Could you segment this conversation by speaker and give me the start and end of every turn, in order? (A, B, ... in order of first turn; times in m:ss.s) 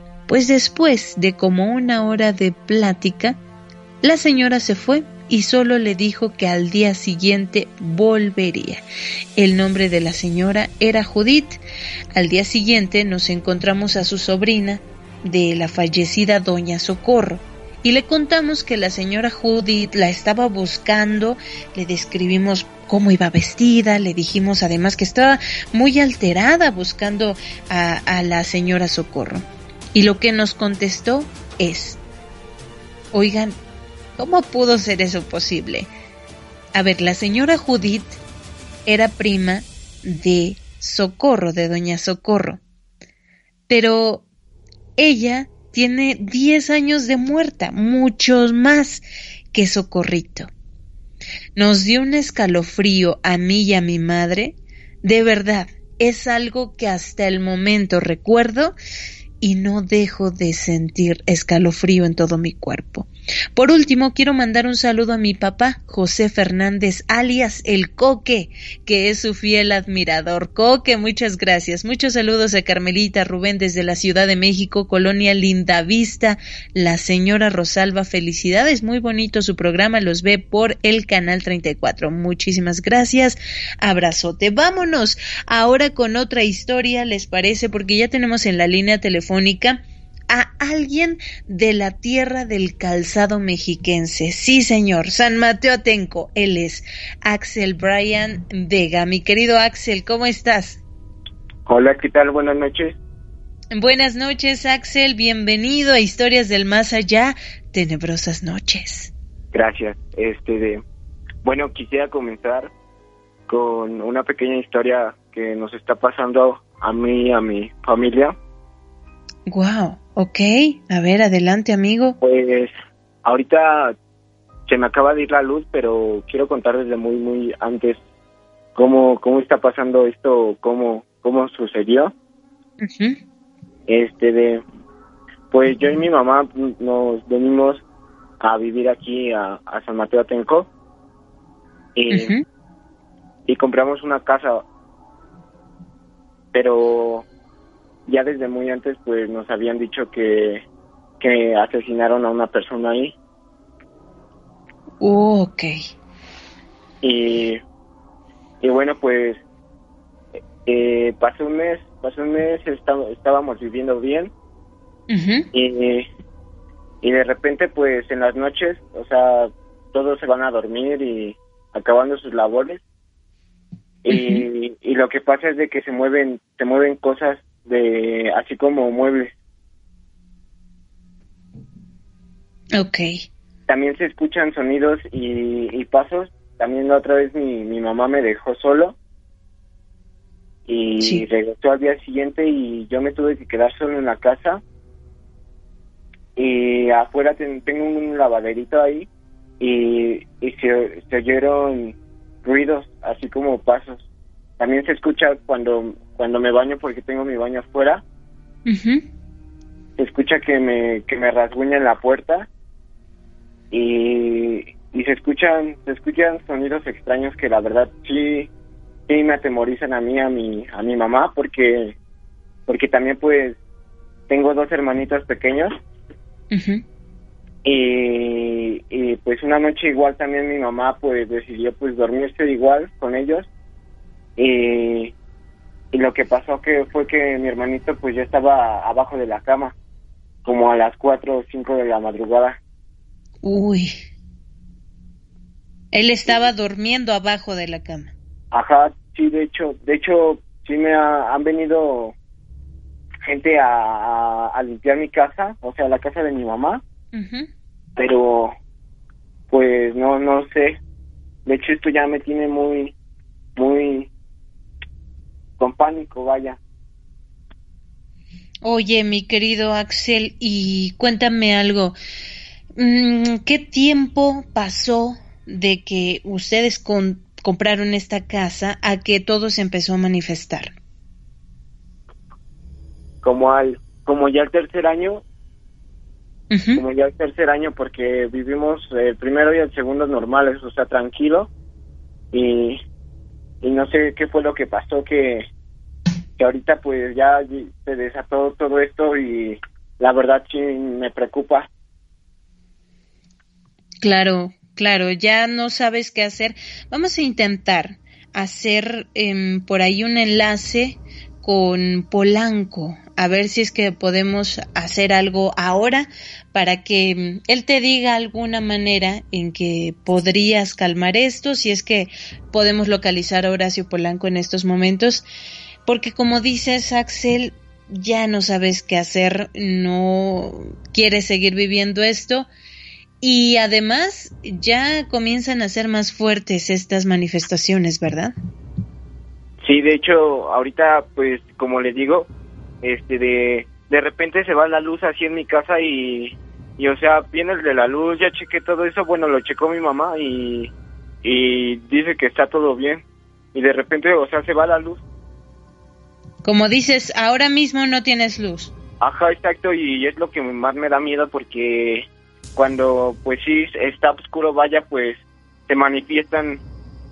0:00.3-0:03.4 A
0:04.0-0:08.8 A
0:09.4-0:11.6 A
0:12.1-0:32.0 A
0:33.1-0:33.6 A
0:34.2-0:35.9 A
0:36.7-0:38.2 A
0:38.9-0:42.6 A
0:43.7-0:44.2 A
0:45.0-0:50.5 A
0:51.6-0:58.8 A
0:59.4-1:40.8 A
1:41.7-1:43.0 B
1:43.7-1:49.1 A
1:49.5-1:50.8 B
1:51.4-1:52.7 B
1:53.5-1:58.4 B
1:59.5-2:02.2 A
2:02.2-2:02.7 B
2:03.2-2:04.0 B
2:04.7-2:08.0 B
2:08.8-2:12.1 B
2:12.8-2:13.2 A
2:13.9-2:14.6 B
2:15.5-2:17.8 B
2:18.4-2:20.7 B
2:22.0-2:22.4 B
2:22.1-2:22.4 A
2:23.5-2:24.6 B
2:26.5-2:27.3 B
2:28.1-2:30.6 B
2:31.2-2:33.2 B
2:35.0-2:35.7 A
2:37.0-2:37.6 B
2:38.6-2:39.4 B
2:40.6-2:44.3 B
2:45.1-2:45.5 A
2:45.5-2:46.1 B
2:47.0-2:52.8 B
2:54.0-2:59.3 B
2:54.1-2:54.5 A
3:02.8-3:03.2 A
3:03.7-3:09.0 B
3:10.7-3:14.6 B
3:16.4-3:19.1 B
3:19.6-3:24.0 B
3:24.6-3:28.0 B
3:28.7-3:29.0 A
3:30.0-3:32.5 B
3:33.7-3:38.5 B
3:39.1-3:42.0 B
3:42.7-3:43.6 B
3:44.3-3:45.8 B
3:46.5-3:46.8 A
3:47.6-3:53.5 B
3:54.4-3:55.1 B
3:55.9-3:59.8 B
4:00.4-4:02.6 B
4:03.4-4:03.9 A
4:05.9-4:08.1 A
4:08.5-4:12.2 B
4:13.2-4:16.8 B
4:17.1-4:17.5 A
4:18.0-4:18.6 B
4:19.5-4:20.8 B
4:21.4-4:22.9 B
4:23.6-4:24.1 B
4:25.6-4:26.6 B
4:28.6-4:32.0 A
4:32.8-4:40.7 A
4:43.2-4:45.2 B
4:46.5-4:46.8 A
4:46.8-4:51.5 B
4:52.3-4:52.8 B
4:53.6-4:55.5 B
4:56.4-5:01.7 B
5:04.0-5:25.3 A
5:25.9-5:32.5 A
5:33.2-5:38.3 A
5:39.6-5:42.3 B
5:42.8-5:50.7 B
5:51.2-5:53.0 B
5:53.5-5:55.0 B
5:56.4-5:58.7 A
5:59.0-6:06.6 B